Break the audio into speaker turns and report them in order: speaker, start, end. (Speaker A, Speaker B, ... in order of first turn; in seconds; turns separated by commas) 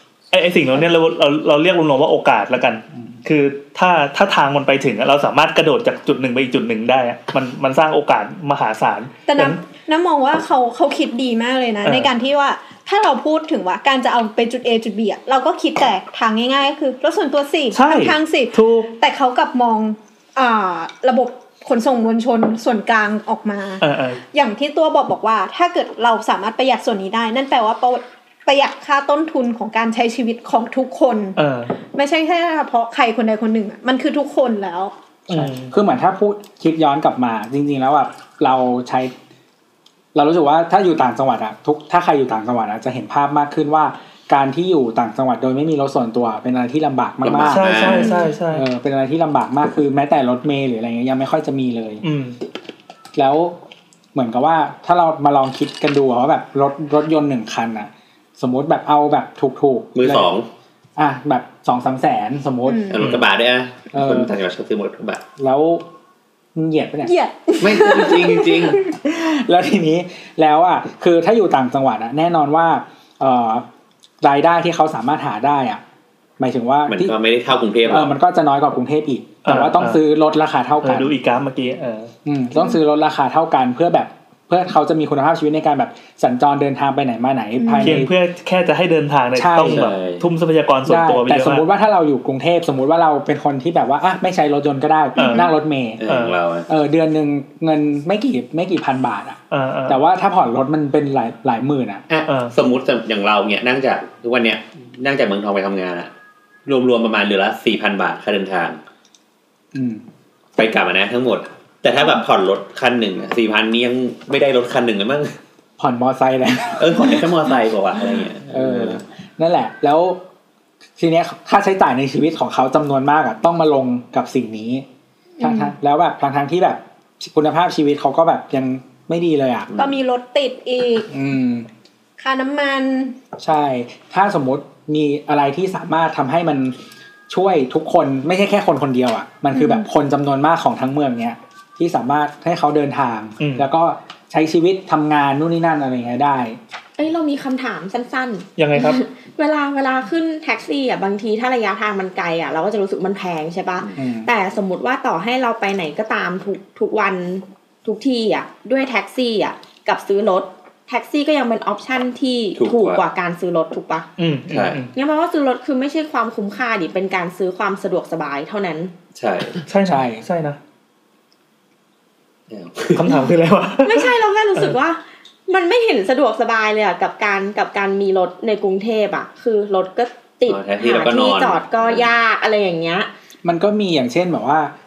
Speaker A: 0.3-9.6, Speaker B: 9.3-34.9, Speaker A: 11.8-12.1, Speaker A: 17.7-18.9, Speaker A: 23.8-24.2, Speaker A: 31.4-31.7, Speaker A: 35.3-35.7, Speaker C: 35.3-39.1, Speaker C: 40.1-47.8, Speaker D: 47.2-48.1, Speaker A: 47.4-48.6, Speaker B: 47.9-48.3, Speaker C: 48.5-52.0, Speaker A: 52.0-52.4, Speaker C: 53.1-53.5, Speaker C: 54.1-60.3, Speaker D: 59.9-60.5, Speaker C: 61.0-63.0, Speaker B: 62.6-63.0, Speaker D: 62.9-65.2, Speaker A: 63.0-63.2, Speaker C: 63.9-64.3, Speaker C: 65.4-65.8, Speaker C: 66.5-67.1, Speaker B: 67.0-68.9, Speaker D: 67.6-68.8, Speaker C: 69.0-73.7, Speaker C: 74.2-75.8, Speaker C: 76.4-77.2, Speaker D: 76.9-78.1, Speaker C: 77.9-81.1, Speaker A: 79.4-80.0, Speaker A: 80.8-82.1, Speaker C: 82.2-88.1, Speaker B: 87.6-88.1, Speaker A: 87.8-91.6, Speaker C: 89.3-89.9, Speaker D: 89.6-90.2, Speaker C: 90.8-96.0, Speaker A: 95.2-95.5, Speaker B: 95.2-95.5, Speaker D: 96.0-96.7, Speaker A: 96.0-96.3, Speaker C: 96.7-102.0, Speaker A: 99.5-100.0, Speaker D: 102.1-106.1, Speaker A: 102.3-102.5, Speaker D: 106.7-108.8, Speaker C: 109.7-110.0, Speaker D: 110.5-115.4, Speaker C: 115.8-117.3, Speaker D: 116.8-119.0, Speaker C: 118.5-120.2, Speaker C: 121.0-124.8, Speaker B: 125.4-125.7, Speaker C: 125.4-129.7, Speaker D: 129.7-130.0, Speaker B: 129.8-131.1, Speaker C: 131.1-131.7, Speaker B: 132.2-133.2, Speaker C: 133.4-136.8, Speaker C: 137.3-146.6, Speaker B: 139.5-139.9, Speaker A: 143.4-143.7, Speaker E: 147.0-164.1, Speaker A: 148.6-149.0, Speaker C: 154.0-154.3, Speaker D: 162.6-163.0, Speaker A: 164.2-164.9, Speaker D: 164.5-164.8, Speaker E: 164.9-168.9, Speaker D: 169.2-169.6, Speaker A: 169.6-170.6, Speaker C: 169.8-170.2, Speaker D: 172.5-173.2, Speaker A: 172.9-174.7, Speaker E: 173.8-183.1, Speaker D: 180.4-182.1, Speaker C: 183.4-184.7